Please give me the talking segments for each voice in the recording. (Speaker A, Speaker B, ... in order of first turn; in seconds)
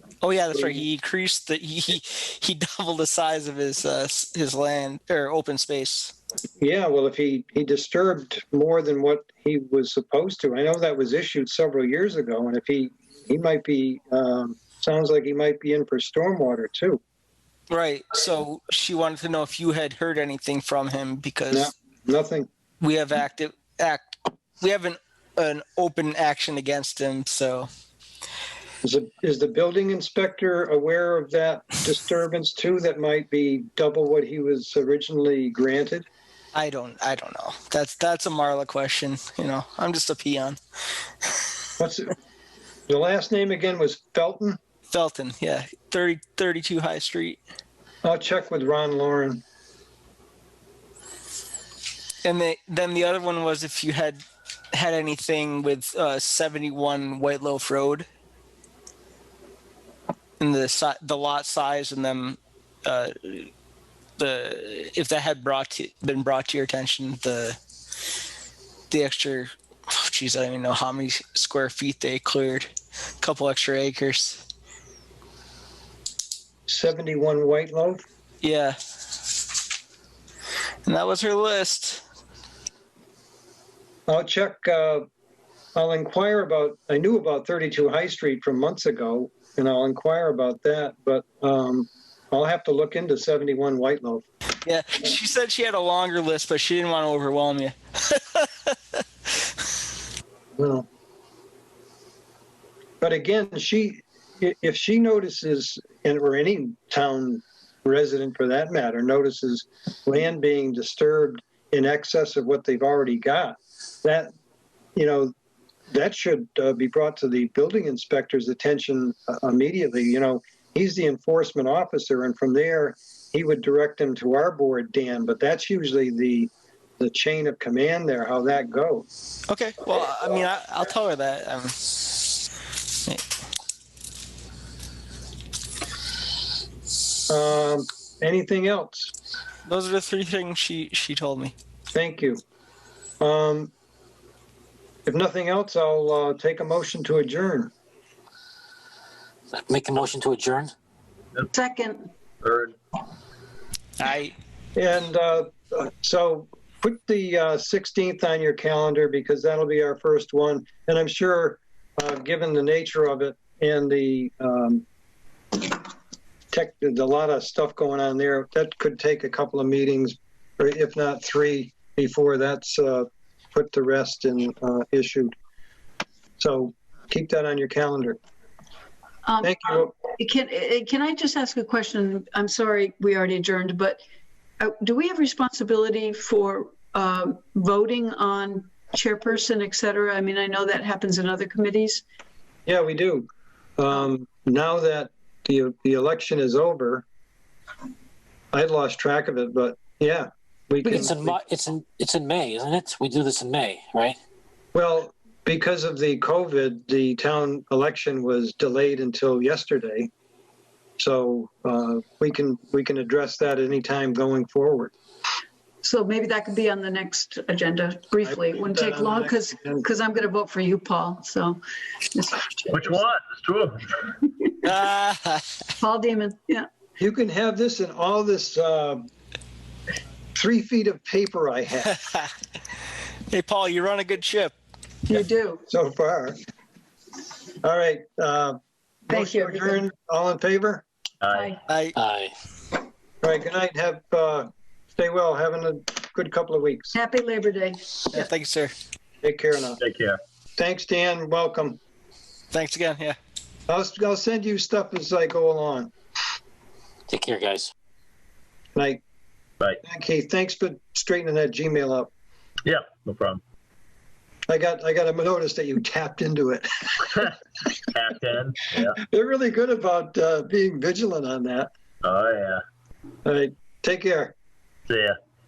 Speaker A: 0.2-6.1, 17.7-21.7, 22.8-27.7, 36.5-40.6, 44.9-47.4, 52.2-54.2, 54.7-58.1, 60.4-63.5, 64.2-67.6, 68.9-74.4, 78.4-78.8, 80.8-82.0, 94.6-99.0, 129.5-131.9, 139.7-141.5, 154.0-154.3, 224.6-225.4, 233.3-234.5, 241.7-241.9, 248.1-248.7, 252.5-253.2
Speaker B: 0.5-0.8, 6.6-17.0, 21.5-22.5, 28.8-36.0, 41.8-42.1, 42.9-44.6, 48.0-49.4, 76.7-78.0, 84.1-85.1, 85.7-94.2, 100.6-100.9, 103.0-114.3, 114.9-115.3, 115.9-129.1, 137.3-139.1, 141.9-142.4, 143.2-143.7, 145.1-147.7, 154.8-164.8, 166.5-175.3, 176.4-178.2, 179.4-179.9, 192.7-197.0, 198.5-201.4, 204.7-210.1, 211.0-214.9, 218.2-219.8, 227.0-229.0, 230.3-232.0, 235.1-236.4, 237.6-240.8, 243.2-246.9, 249.2-249.8, 250.6-251.8, 253.7-255.9, 258.7-259.0, 259.8-262.1, 264.5-267.3, 269.1-271.7, 273.2-274.3
Speaker C: 149.5-150.7, 200.8-204.2, 241.9-242.3, 257.1-257.7
Speaker D: 151.5-152.1, 179.2-184.0, 184.6-192.0, 215.8-221.6, 222.1-223.0, 225.8-226.7, 235.1-235.6, 239.1-239.8, 241.3-241.6, 246.9-248.3
Speaker E: 152.4-152.7, 222.7-224.1, 241.2-241.6, 249.8-250.2, 262.6-263.4, 267.9-269.0, 272.0-272.6, 274.9-275.1